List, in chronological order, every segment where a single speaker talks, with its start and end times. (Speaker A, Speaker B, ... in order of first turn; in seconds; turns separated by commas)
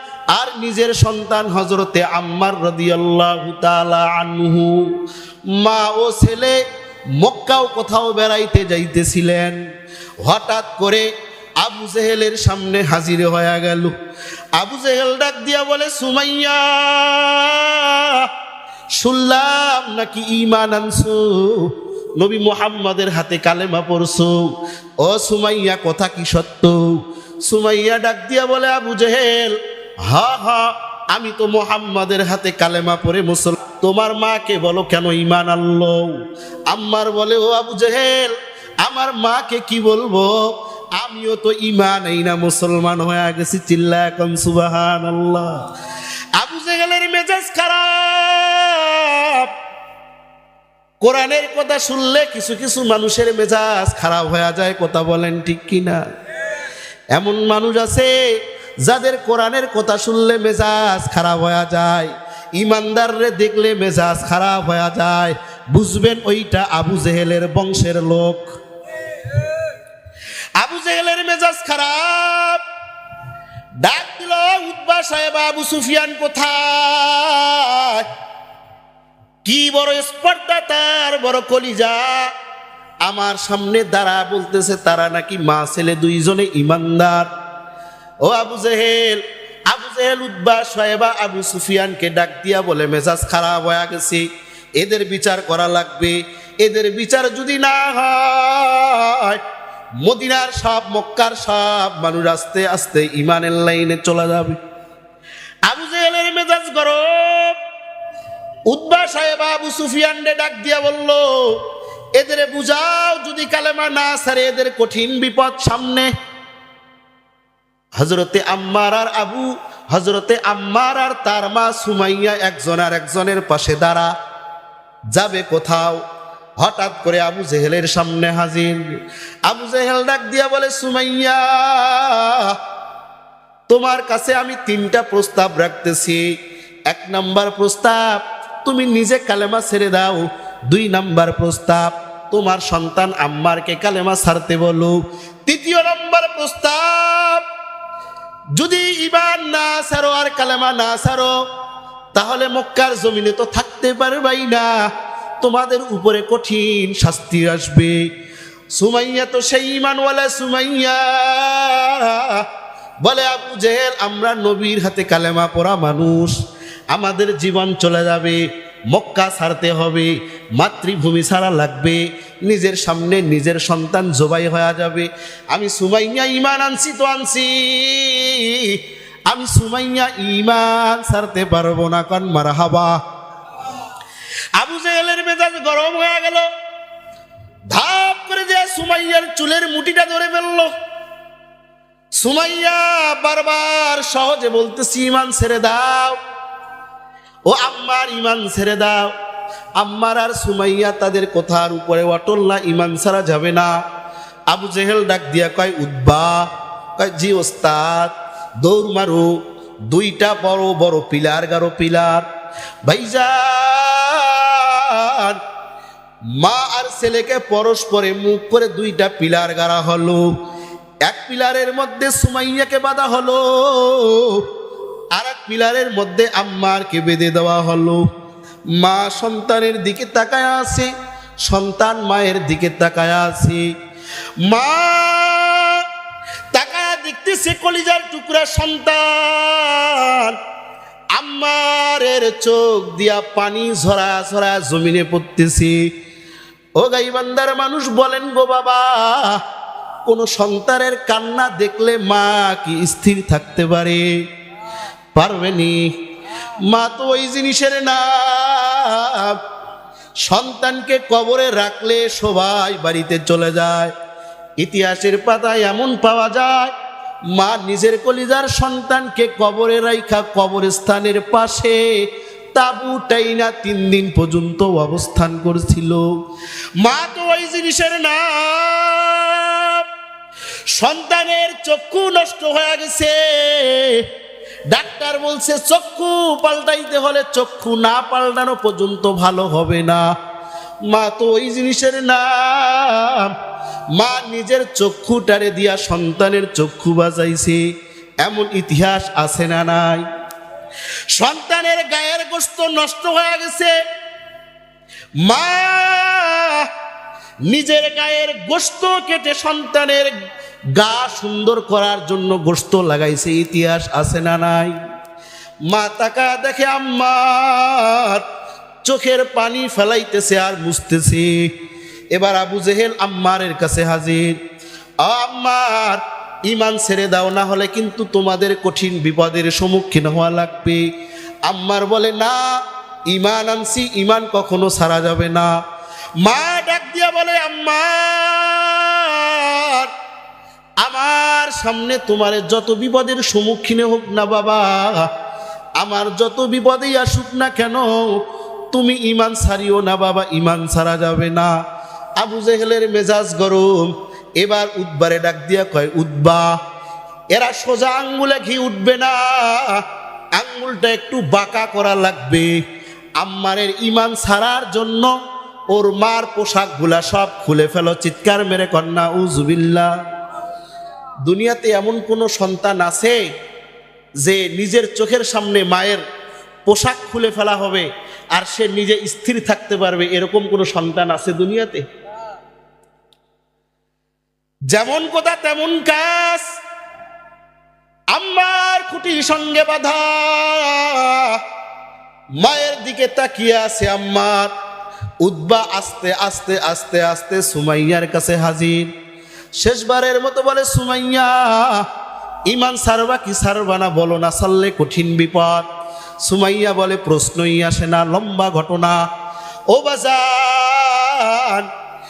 Speaker A: 0.3-5.0, Speaker A: 5.5-6.6, Speaker A: 7.2-9.6, Speaker A: 10.2-14.0, Speaker A: 14.6-18.3, Speaker A: 19.0-24.5, Speaker A: 25.0-45.7, Speaker A: 46.3-49.5, Speaker A: 51.0-56.0, Speaker A: 57.1-58.1, Speaker A: 58.8-68.5, Speaker A: 70.6-72.6, Speaker A: 73.8-78.1, Speaker A: 79.5-82.3, Speaker A: 83.0-87.3, Speaker A: 88.2-99.4, Speaker A: 100.0-104.6, Speaker A: 105.7-107.6, Speaker A: 108.7-111.6, Speaker A: 112.2-116.1, Speaker A: 118.0-124.1, Speaker A: 125.1-126.0, Speaker A: 126.6-132.6, Speaker A: 133.7-136.2, Speaker A: 136.9-147.4, Speaker A: 148.6-151.3, Speaker A: 152.2-154.7, Speaker A: 155.4-158.0, Speaker A: 158.7-162.5, Speaker A: 163.0-166.4, Speaker A: 166.9-183.0, Speaker A: 184.6-186.5, Speaker A: 187.7-190.7, Speaker A: 192.2-196.2, Speaker A: 197.5-199.1, Speaker A: 199.8-203.7, Speaker A: 204.5-212.3, Speaker A: 212.8-215.4, Speaker A: 216.3-220.3, Speaker A: 221.1-224.5, Speaker A: 225.1-228.1, Speaker A: 228.8-230.9, Speaker A: 231.4-233.7, Speaker A: 234.4-235.9, Speaker A: 236.5-240.4, Speaker A: 241.2-245.9, Speaker A: 246.8-249.4, Speaker A: 250.1-254.1, Speaker A: 255.2-259.4, Speaker A: 260.2-263.9, Speaker A: 264.6-266.8, Speaker A: 267.3-272.0, Speaker A: 272.5-276.1, Speaker A: 276.8-279.9, Speaker A: 280.7-284.1, Speaker A: 284.7-290.1, Speaker A: 290.9-293.4, Speaker A: 293.9-297.6, Speaker A: 298.2-300.1, Speaker A: 301.1-303.8, Speaker A: 305.2-306.7, Speaker A: 307.5-310.1, Speaker A: 310.8-314.8, Speaker A: 315.7-318.2, Speaker A: 318.8-321.5, Speaker A: 322.1-324.4, Speaker A: 325.0-330.9, Speaker A: 331.5-335.5, Speaker A: 336.2-339.9, Speaker A: 340.8-345.1, Speaker A: 345.8-351.5, Speaker A: 352.2-356.5, Speaker A: 357.3-359.8, Speaker A: 360.4-362.6, Speaker A: 363.2-365.1, Speaker A: 365.7-369.9, Speaker A: 371.2-373.2, Speaker A: 374.2-376.0, Speaker A: 376.7-381.9, Speaker A: 384.7-386.5, Speaker A: 388.1-391.4, Speaker A: 392.4-394.5, Speaker A: 395.2-398.9, Speaker A: 399.6-401.9, Speaker A: 402.5-405.7, Speaker A: 406.2-409.0, Speaker A: 409.7-411.7